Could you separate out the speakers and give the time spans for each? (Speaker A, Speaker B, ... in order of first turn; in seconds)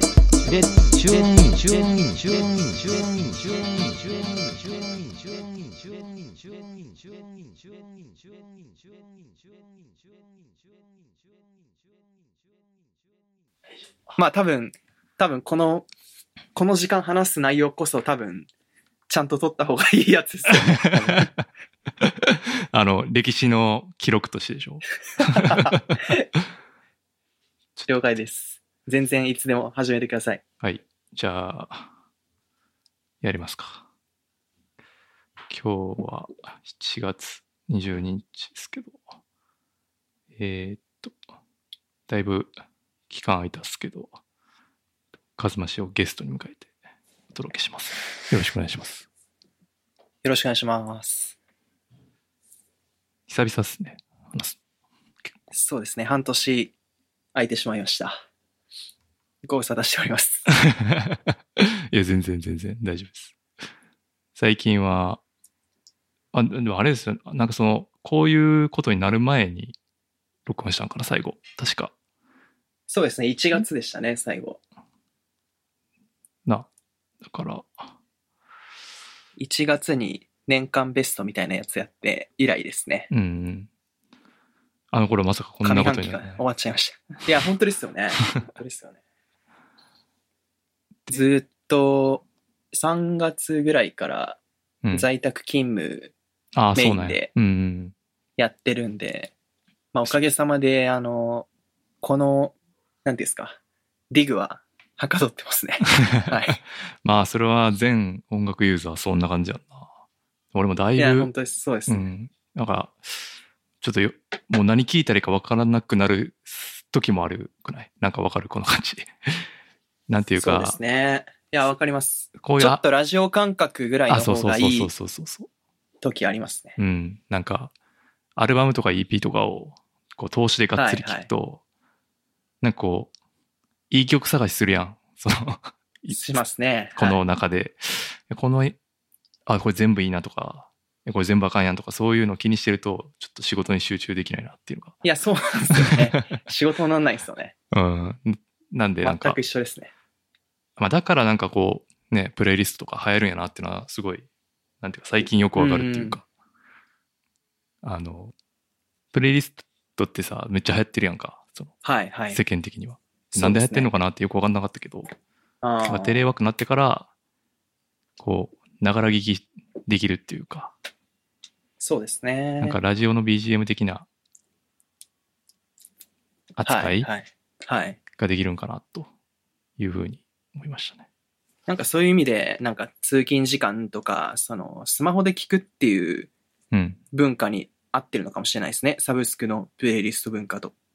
Speaker A: 0.4-6.5
Speaker B: 14.2-15.9, 16.5-18.5, 19.1-21.3, 25.2-26.2, 27.9-30.4, 50.2-51.4, 55.5-56.7, 57.3-58.2, 59.4-60.5, 72.9-74.6, 79.4-83.1, 85.6-89.0, 91.1-94.4, 94.9-96.1, 96.8-97.3, 98.4-99.3, 99.9-101.5, 102.0-102.5, 103.0-103.6, 104.1-106.6, 111.0-112.0, 120.4-124.9, 126.0-126.8, 130.7-131.3, 136.1-137.2, 145.0-147.5, 149.0-149.9, 155.6-156.2, 161.8-162.4, 163.3-163.9, 165.6-166.2, 171.8-172.8, 176.6-178.0, 181.7-186.3, 187.1-190.7
Speaker C: 20.6-21.4, 22.0-26.1, 30.6-31.9, 33.2-33.8, 35.5-39.0, 40.4-41.1, 42.1-42.5, 43.1-44.1, 45.4-46.7, 47.3-49.0, 53.3-54.6, 60.5-63.4, 64.3-65.2, 66.3-69.8, 70.5-71.9, 77.2-77.9, 83.1-83.7, 84.9-86.4, 96.5-97.9, 106.0-109.9, 110.5-111.3, 111.9-113.3, 113.8-119.4, 120.1-120.8, 122.4-122.8, 124.1-125.5, 126.8-127.7, 128.4-131.6, 132.6-133.1, 133.9-136.4, 136.9-138.8, 139.5-145.0, 145.8-146.2, 147.7-149.4, 150.8-154.2, 154.8-156.2, 157.8-158.3, 159.1-161.7, 162.3-165.1, 165.9-167.1, 168.2-170.7, 172.6-174.1, 176.6-177.1, 178.2-179.1, 179.8-181.0, 186.7-187.0